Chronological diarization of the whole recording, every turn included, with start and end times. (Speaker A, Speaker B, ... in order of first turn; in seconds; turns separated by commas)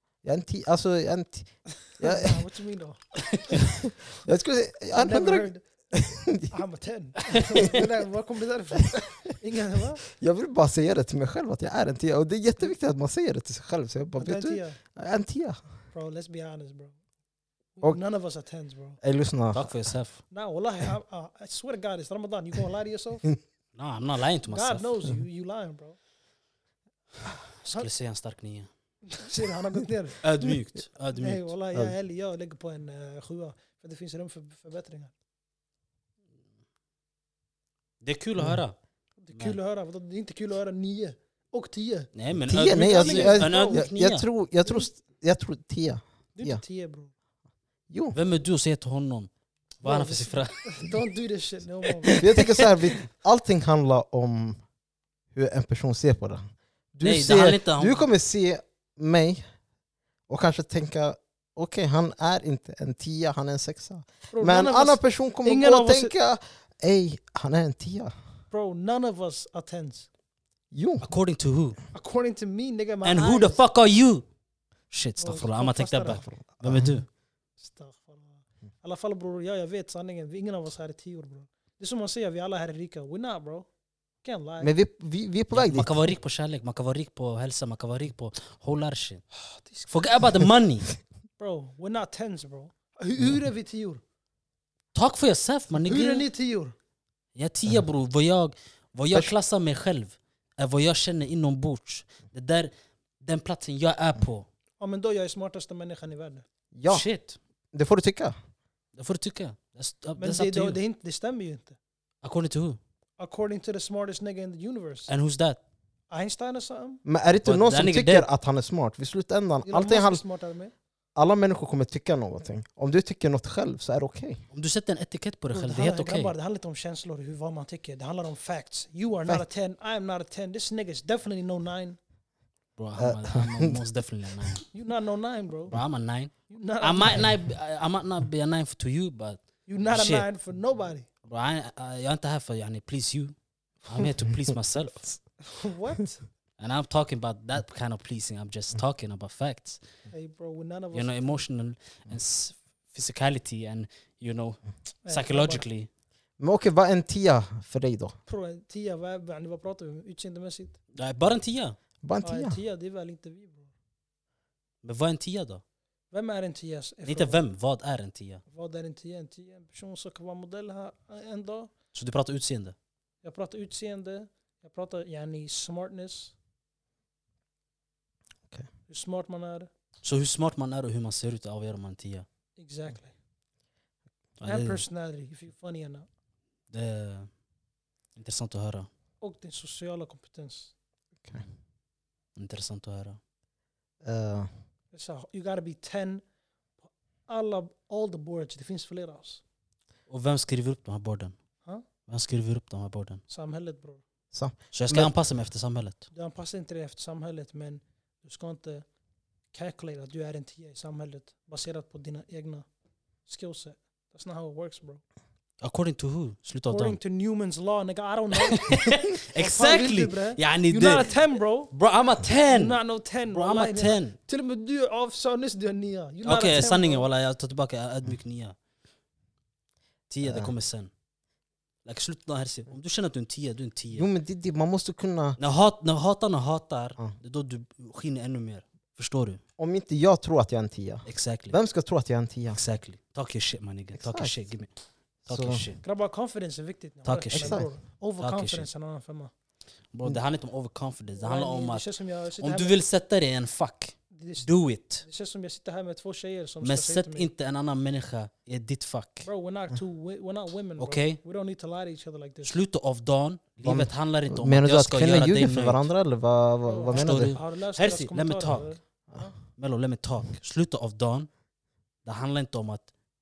Speaker A: 0.2-2.4, Speaker B: 1.9-3.1, Speaker A: 3.7-6.5, Speaker B: 4.9-5.7, Speaker B: 6.5-10.0, Speaker A: 10.1-15.6, Speaker B: 14.2-14.8, Speaker B: 15.9-17.0, Speaker B: 17.8-19.0, Speaker A: 19.0-19.7, Speaker C: 19.5-20.2, Speaker B: 20.3-23.3, Speaker C: 23.8-25.0, Speaker B: 24.5-26.0, Speaker C: 27.6-28.7, Speaker B: 29.1-30.3, Speaker C: 30.2-31.5, Speaker B: 31.1-35.1, Speaker C: 38.0-38.8, Speaker B: 39.2-42.1, Speaker C: 42.1-44.2, Speaker A: 42.5-46.6, Speaker B: 42.9-43.9, Speaker B: 44.6-44.9, Speaker B: 46.4-47.1, Speaker A: 47.9-48.2, Speaker C: 48.1-49.3, Speaker C: 49.8-50.7, Speaker B: 49.8-52.5, Speaker C: 52.0-52.8, Speaker A: 52.2-54.6, Speaker A: 55.3-56.4, Speaker A: 56.9-59.4, Speaker C: 57.0-58.1, Speaker A: 60.3-68.1, Speaker B: 64.3-66.1, Speaker B: 68.5-70.1, Speaker A: 70.7-71.1, Speaker C: 71.0-71.8, Speaker B: 71.9-73.6, Speaker C: 73.0-74.2, Speaker C: 74.9-77.1, Speaker B: 75.2-76.3, Speaker A: 76.6-76.9, Speaker B: 77.6-83.7, Speaker B: 84.2-84.7, Speaker A: 84.6-85.9, Speaker C: 85.5-89.2, Speaker B: 89.4-89.9, Speaker C: 89.9-90.9, Speaker B: 91.4-94.0, Speaker C: 94.9-96.3, Speaker B: 95.8-96.7, Speaker C: 97.4-104.5, Speaker B: 104.8-106.5, Speaker A: 106.7-107.1, Speaker C: 106.9-107.4, Speaker A: 107.7-108.3, Speaker C: 109.0-110.8, Speaker B: 110.2-111.8, Speaker C: 112.2-112.8, Speaker B: 113.2-115.1, Speaker C: 115.1-115.6, Speaker B: 116.1-117.0, Speaker A: 117.0-120.2, Speaker C: 117.5-118.3, Speaker B: 119.7-120.7, Speaker A: 121.2-124.4, Speaker C: 124.5-126.3, Speaker B: 125.5-132.0, Speaker C: 132.8-134.7, Speaker A: 133.0-133.8, Speaker B: 134.7-135.8, Speaker C: 135.7-140.3, Speaker B: 136.5-137.3, Speaker B: 139.7-141.1, Speaker C: 141.2-145.1, Speaker B: 145.4-146.2, Speaker C: 146.6-149.8, Speaker B: 150.1-151.4, Speaker C: 150.9-155.9, Speaker B: 155.1-155.6, Speaker A: 156.4-158.2, Speaker B: 158.3-160.8, Speaker C: 160.9-161.8, Speaker A: 162.0-162.6, Speaker B: 162.2-163.7, Speaker C: 164.8-165.6, Speaker B: 166.1-167.4, Speaker C: 167.1-168.4, Speaker B: 168.5-171.7, Speaker C: 171.9-172.8, Speaker B: 173.2-176.3, Speaker B: 178.9-179.7, Speaker C: 180.0-182.3, Speaker B: 182.6-183.1, Speaker C: 184.4-184.8, Speaker B: 184.4-186.1, Speaker C: 186.7-187.3, Speaker C: 188.2-188.9, Speaker B: 189.2-190.7, Speaker C: 192.4-193.2, Speaker A: 194.0-194.5, Speaker B: 194.9-196.2, Speaker B: 196.9-199.4, Speaker C: 200.1-201.4, Speaker C: 202.1-203.2, Speaker B: 203.3-204.0, Speaker A: 204.3-205.1, Speaker C: 204.7-206.1, Speaker B: 206.1-208.9, Speaker B: 209.5-212.7, Speaker B: 213.3-215.0, Speaker C: 215.6-217.0, Speaker B: 216.7-221.7, Speaker C: 218.4-221.2, Speaker C: 221.7-224.2, Speaker B: 222.5-227.1, Speaker C: 226.2-228.6, Speaker C: 230.1-230.9, Speaker A: 230.2-230.5, Speaker C: 231.8-234.1, Speaker A: 233.9-235.4, Speaker C: 235.4-239.4, Speaker A: 239.6-242.6, Speaker C: 241.1-241.6, Speaker C: 242.5-244.7, Speaker A: 243.9-244.3, Speaker C: 245.2-245.8, Speaker A: 245.3-245.6, Speaker B: 245.8-249.3, Speaker C: 247.1-248.7, Speaker A: 247.3-247.7, Speaker C: 249.9-255.1, Speaker B: 251.2-252.8, Speaker B: 254.1-254.5, Speaker B: 255.0-257.3, Speaker C: 256.6-259.3, Speaker B: 259.2-262.6, Speaker C: 260.8-261.2, Speaker C: 262.4-265.8, Speaker A: 263.6-267.4, Speaker B: 266.6-269.3, Speaker C: 266.9-268.8, Speaker C: 269.6-271.3, Speaker C: 272.1-272.9